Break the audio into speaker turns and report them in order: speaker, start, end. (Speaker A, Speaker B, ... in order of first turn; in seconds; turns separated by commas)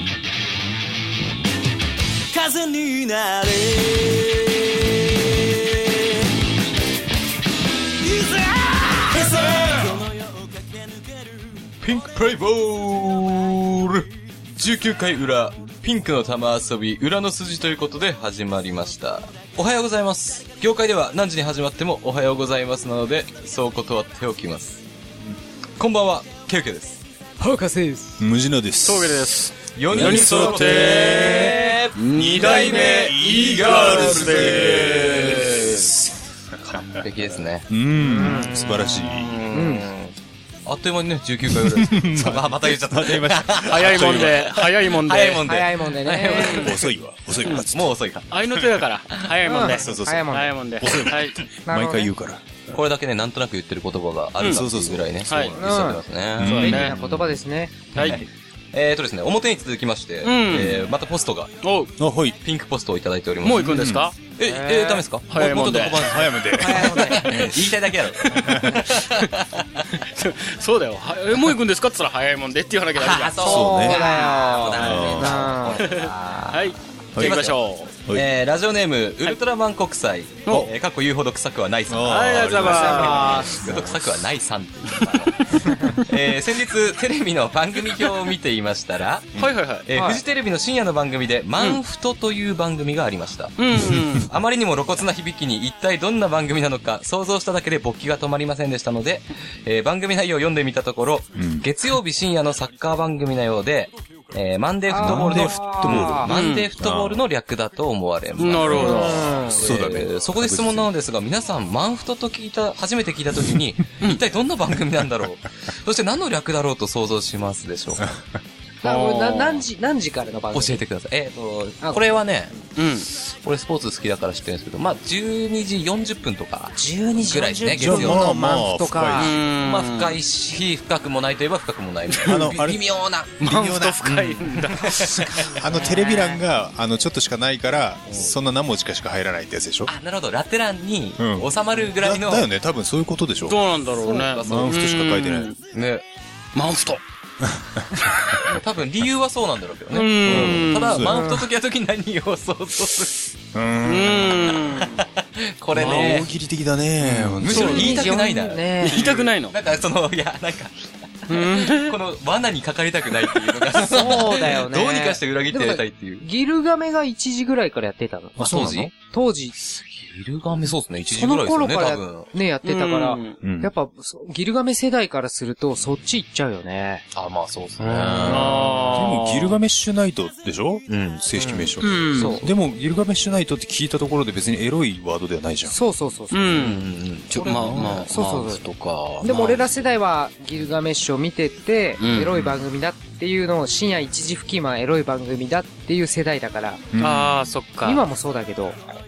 Speaker A: 9.2-9.9, Speaker B: 11.8-14.0, Speaker A: 11.8-13.9, Speaker A: 14.6-24.8, Speaker A: 25.8-27.0, Speaker C: 27.4-28.2, Speaker B: 28.2-35.9, Speaker D: 28.8-35.9, Speaker A: 29.8-35.9, Speaker A: 36.6-37.7, Speaker B: 36.7-37.0, Speaker B: 37.7-39.4, Speaker C: 38.0-38.6, Speaker A: 38.7-40.1, Speaker C: 39.5-39.9, Speaker A: 40.7-46.8, Speaker B: 41.5-44.5, Speaker D: 43.7-45.5, Speaker C: 45.4-46.7, Speaker D: 46.3-46.8, Speaker B: 46.4-47.9, Speaker A: 47.5-48.8, Speaker D: 48.3-51.5, Speaker C: 49.5-50.5, Speaker B: 49.6-52.8, Speaker C: 51.7-52.1, Speaker A: 52.7-57.0, Speaker D: 54.4-54.6, Speaker B: 54.4-55.8, Speaker D: 55.3-55.6, Speaker C: 55.6-58.0, Speaker B: 56.4-57.3, Speaker D: 56.4-57.0, Speaker D: 58.0-58.2, Speaker B: 58.0-58.3, Speaker A: 58.0-61.6, Speaker D: 60.2-60.9, Speaker D: 61.6-61.9, Speaker B: 62.0-62.4, Speaker A: 62.4-69.8, Speaker D: 63.4-64.2, Speaker C: 64.4-65.1, Speaker D: 65.3-66.2, Speaker B: 65.8-67.5, Speaker C: 66.6-67.4, Speaker D: 68.2-69.3, Speaker B: 68.3-68.9, Speaker D: 70.0-75.3, Speaker A: 73.0-118.1, Speaker B: 73.4-74.1, Speaker C: 73.5-75.9, Speaker B: 74.7-75.6, Speaker D: 75.8-77.9, Speaker B: 77.1-77.5, Speaker B: 81.9-84.0, Speaker D: 82.1-83.4, Speaker C: 83.0-83.4, Speaker B: 85.6-85.9, Speaker D: 89.4-89.9, Speaker C: 89.9-90.2, Speaker D: 93.6-94.3, Speaker B: 101.3-101.7, Speaker C: 104.9-106.3, Speaker B: 105.0-107.2, Speaker D: 106.3-106.7, Speaker D: 108.4-109.5, Speaker C: 108.7-109.6, Speaker B: 109.5-110.9, Speaker D: 118.8-119.6, Speaker C: 118.8-120.8, Speaker A: 120.5-128.2, Speaker D: 122.8-123.1, Speaker C: 126.8-129.3, Speaker B: 127.8-129.4, Speaker D: 129.2-130.2, Speaker A: 129.5-133.3, Speaker D: 132.1-132.5, Speaker B: 132.2-132.8, Speaker B: 133.4-139.9, Speaker D: 133.4-135.7, Speaker A: 134.9-135.3, Speaker A: 135.9-136.3, Speaker A: 139.9-142.5, Speaker B: 141.2-143.6, Speaker D: 143.4-145.6, Speaker A: 144.0-144.8, Speaker B: 144.4-145.5, Speaker A: 145.7-146.0, Speaker D: 146.6-147.0, Speaker B: 147.4-147.9, Speaker A: 148.4-153.2, Speaker D: 149.9-151.1, Speaker B: 150.2-151.2, Speaker C: 151.1-151.5, Speaker B: 153.5-154.6, Speaker D: 153.8-155.0, Speaker A: 154.7-156.3, Speaker B: 155.7-158.1, Speaker D: 155.7-156.2, Speaker A: 157.0-166.2, Speaker D: 157.3-158.0, Speaker C: 157.5-159.0, Speaker D: 158.8-159.6, Speaker D: 161.3-162.0, Speaker C: 163.8-169.6, Speaker B: 168.4-168.9, Speaker A: 168.4-168.9, Speaker A: 169.6-172.3, Speaker C: 171.2-177.0, Speaker D: 172.6-173.4, Speaker B: 173.4-173.7, Speaker A: 177.1-178.7, Speaker D: 177.8-179.6, Speaker C: 178.3-178.7, Speaker B: 178.6-185.8, Speaker A: 180.9-182.5, Speaker D: 181.8-182.4, Speaker C: 185.7-186.6, Speaker D: 186.3-189.6, Speaker A: 186.6-188.1, Speaker B: 187.4-188.1, Speaker C: 188.1-188.6, Speaker C: 189.2-196.9, Speaker D: 192.0-192.3, Speaker B: 192.2-192.5, Speaker B: 196.9-197.5, Speaker D: 197.0-198.0, Speaker C: 197.8-198.8